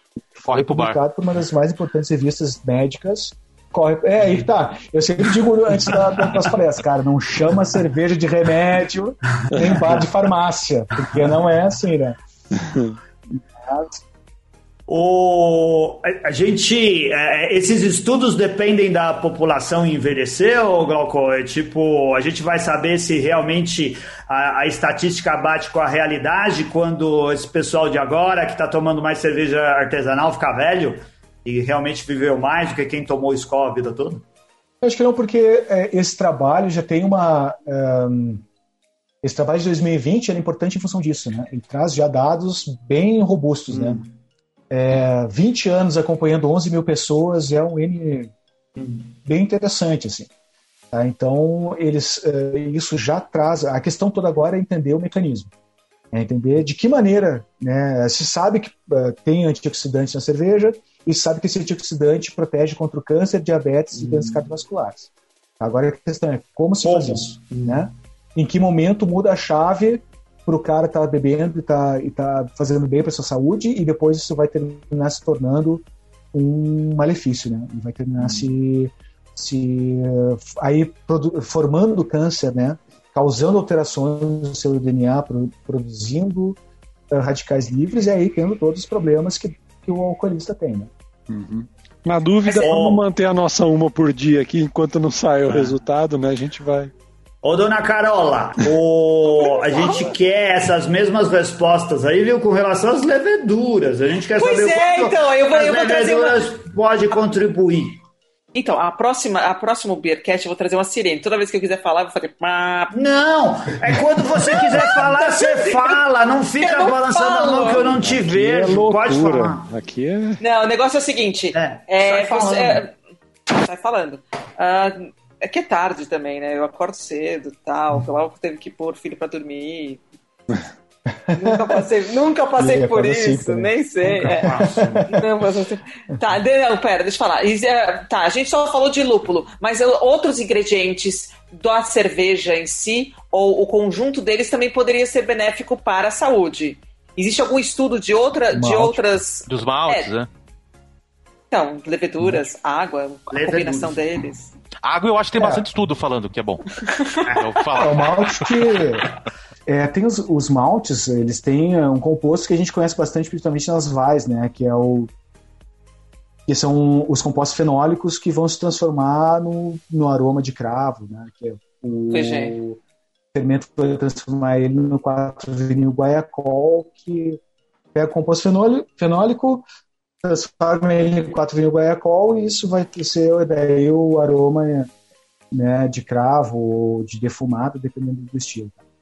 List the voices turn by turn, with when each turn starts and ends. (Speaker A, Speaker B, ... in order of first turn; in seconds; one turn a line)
Speaker A: 0.3-12.2
Speaker B: 0.4-1.0
Speaker C: 12.6-12.9
Speaker A: 13.3-14.0
Speaker D: 14.9-34.2
Speaker A: 34.8-38.4
Speaker A: 39.2-44.0
Speaker D: 43.7-44.1
Speaker A: 44.7-48.3
Speaker D: 48.8-49.1
Speaker A: 49.2-50.3
Speaker A: 50.9-55.5
Speaker A: 56.1-86.6
Speaker D: 64.0-64.5
Speaker D: 66.8-67.9
Speaker A: 87.1-90.9
Speaker C: 91.3-96.9
Speaker E: 92.4-92.7
Speaker D: 92.6-93.0
Speaker D: 95.5-95.7
Speaker D: 97.4-108.0
Speaker E: 104.4-106.5
Speaker E: 108.5-112.9
Speaker D: 112.9-119.7
Speaker E: 114.7-115.9
Speaker E: 116.6-118.0
Speaker C: 117.8-120.4
Speaker E: 120.4-122.9
Speaker D: 121.5-122.8
Speaker E: 123.5-130.0
Speaker A: 131.1-131.8
Speaker E: 131.3-134.5
Speaker A: 132.6-135.1
Speaker D: 134.2-135.1
Speaker E: 135.1-150.1
Speaker A: 148.5-149.2
Speaker B: 149.5-150.3
Speaker E: 151.5-154.5
Speaker D: 153.3-154.0
Speaker B: 154.8-156.7
Speaker A: 155.3-155.6
Speaker E: 156.9-157.2
Speaker B: 157.3-158.6
Speaker A: 157.7-159.0
Speaker A: 159.7-165.1
Speaker A: 166.5-172.8
Speaker E: 172.1-172.6
Speaker A: 173.3-177.4
Speaker A: 177.9-179.6
Speaker A: 180.2-184.9
Speaker A: 185.5-188.8